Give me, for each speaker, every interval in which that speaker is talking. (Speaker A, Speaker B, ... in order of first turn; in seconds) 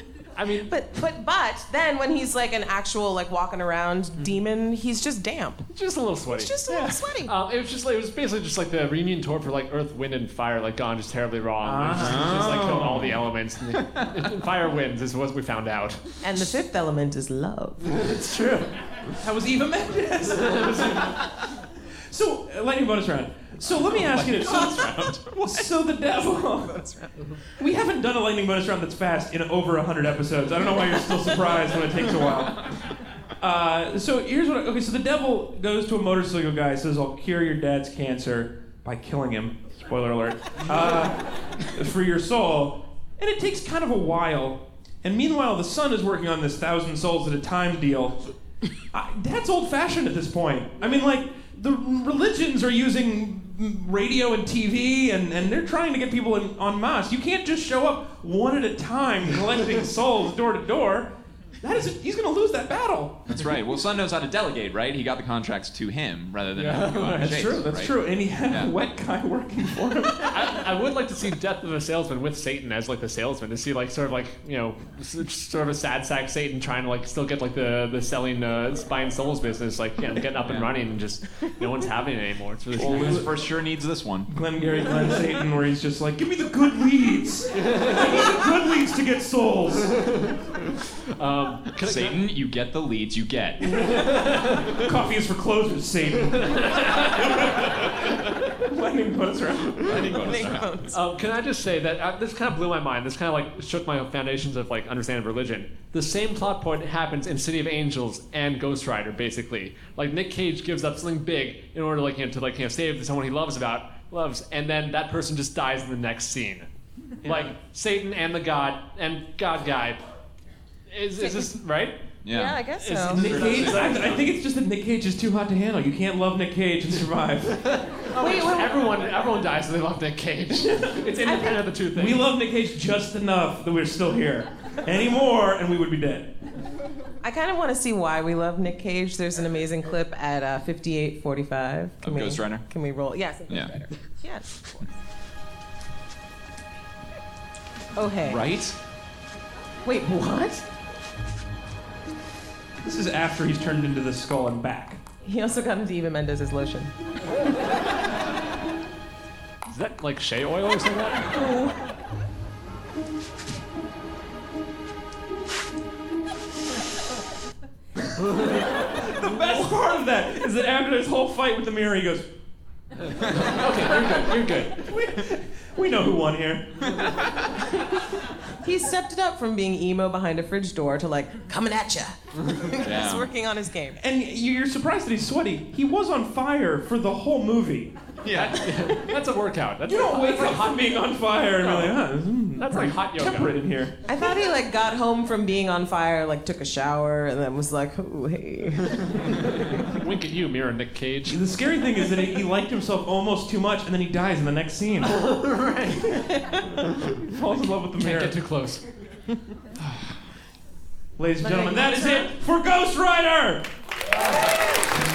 Speaker A: 0.3-0.7, 5.7-16.1, 17.9-18.7, 20.4-21.1, 66.5-67.7, 70.2-83.4, 87.6-88.2, 90.0-90.3, 91.2-92.2, 93.9-94.8, 96.5-97.1, 100.9-116.7, 117.2-120.0, 120.9-122.0, 122.8-124.3, 127.6-132.3, 159.7-161.5, 173.3-174.8, 188.3-192.1, 192.6-193.6, 199.3-201.4, 205.0-206.2, 207.0-208.8
Speaker B: 0.6-5.7, 6.3-7.3, 16.2-17.9, 26.7-27.1, 100.1-101.0, 121.2-121.5, 122.3-123.3, 128.2-129.0, 131.3-131.6, 137.2-144.4, 147.9-148.4, 149.8-150.6, 155.2-156.9, 161.4-161.7, 178.6-184.0, 194.1-199.6, 211.4-212.3
Speaker C: 11.6-13.1, 19.2-21.2, 22.1-26.8, 27.6-32.6, 33.4-48.2, 48.9-63.3, 67.2-70.6, 82.8-83.3, 84.3-90.0, 94.7-97.9, 98.5-100.4, 123.1-127.6, 130.5-131.1, 131.9-136.3, 152.8-155.0, 168.8-172.3, 174.8-176.8, 184.0-187.9, 189.8-194.0, 201.2-205.2, 207.2-208.4, 211.2-213.6
Speaker D: 11.9-13.1, 23.6-25.7, 63.3-68.7, 80.4-80.7, 82.7-84.3, 91.8-94.1, 99.8-100.9, 122.2-124.2, 142.0-142.7, 143.5-143.8, 148.2-148.8, 173.2-173.5, 176.8-177.5, 182.8-183.3, 188.2-188.9